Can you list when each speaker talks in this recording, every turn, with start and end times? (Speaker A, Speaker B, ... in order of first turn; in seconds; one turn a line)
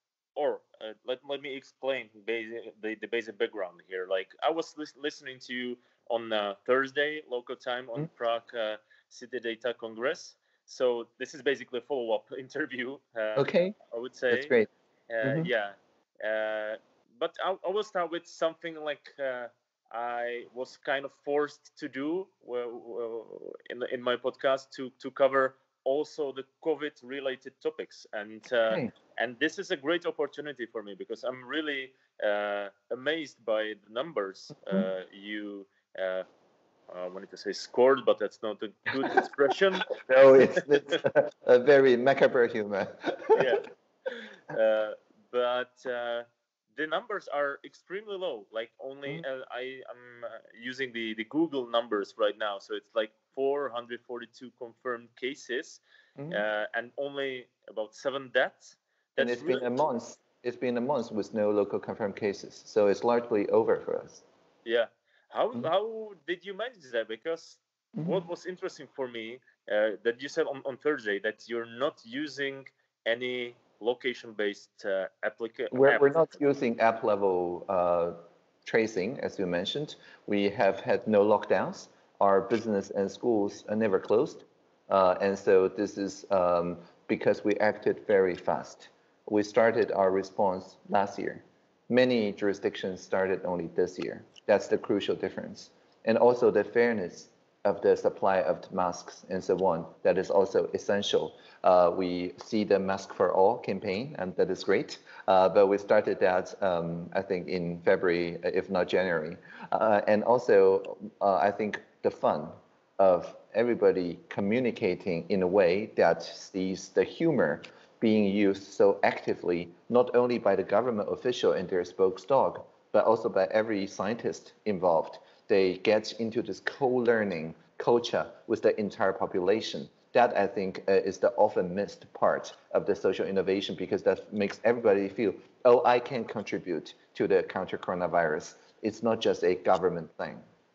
Speaker A: 0.4-14.5
Speaker B: 13.4-13.8
Speaker B: 14.3-14.7
Speaker A: 15.1-36.2
Speaker B: 15.2-15.5
Speaker A: 36.9-41.0
Speaker B: 40.0-43.6
Speaker A: 43.3-59.8
Speaker B: 59.2-64.2
Speaker A: 64.7-76.4
Speaker B: 75.7-140.4